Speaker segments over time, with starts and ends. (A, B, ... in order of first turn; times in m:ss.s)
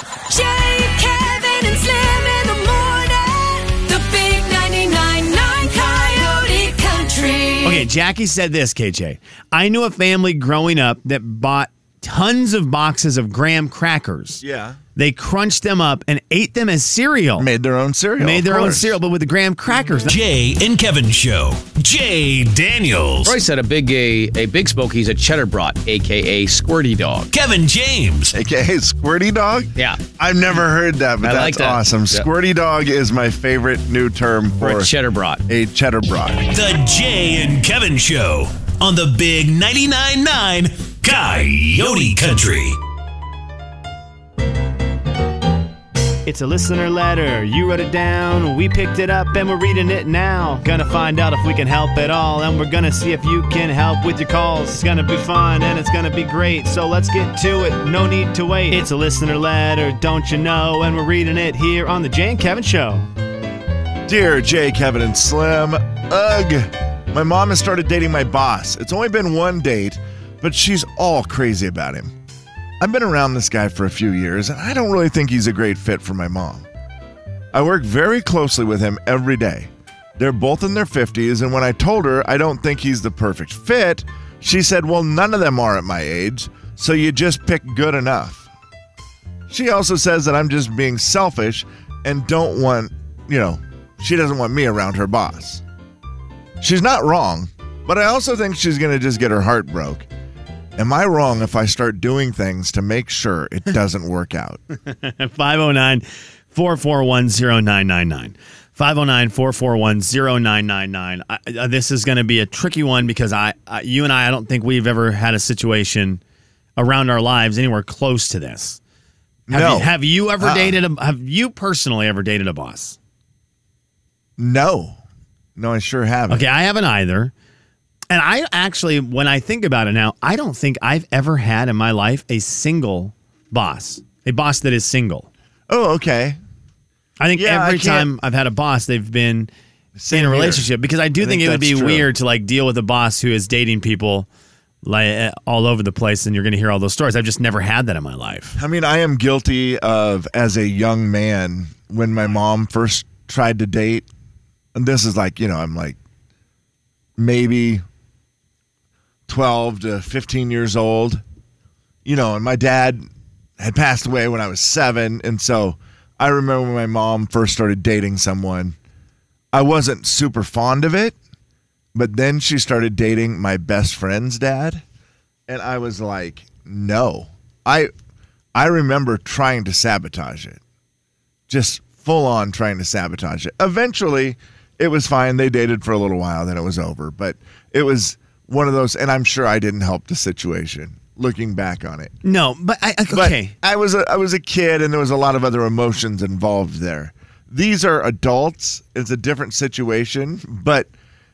0:00.3-0:07.9 A
0:07.6-0:14.4 B
0:14.4-0:14.8 C
0:15.0-0:17.5 B
0:17.4-0:19.0 C
0:18.2-0:20.2 B
0:20.1-0:23.4 D
0:23.2-0:27.3 E
0:27.3-0:28.3 D
0:28.3-0:34.9 C
0:31.2-0:32.3 E
0:34.6-0:35.4 E
0:35.5-0:36.5 C
0:36.5-0:42.8 D
0:46.2-1:03.1 B
1:04.1-1:12.1 C
1:12.8-1:16.6 C
1:17.5-1:28.4 C
1:29.5-1:35.6 C
1:36.6-1:40.1 C
1:40.8-1:44.6 C
1:44.9-1:56.2 B
1:56.8-1:58.8 B
1:59.5-2:00.8 C
1:59.5-2:03.0 B
2:04.4-2:05.0 C
2:05.6-2:06.4 C
2:06.3-2:07.3 B
2:08.1-2:15.3 B
2:15.7-2:16.4 C
2:17.2-2:19.5 B
2:17.3-2:18.1 C
2:20.0-2:20.7 C
2:20.1-2:24.3 B
2:21.2-2:22.1 C
2:24.8-2:28.6 B
2:28.6-2:34.1 C
2:34.7-2:36.0 C
2:37.2-2:37.8 C
2:39.3-2:41.2 C
2:42.0-2:43.1 C
2:43.6-2:48.8 C
2:49.5-2:51.2 C
2:51.9-2:54.8 C
2:55.5-2:57.9 C
2:58.5-3:00.6 C
3:01.5-3:12.1 C
3:12.2-3:13.5 B
3:13.1-3:20.9 C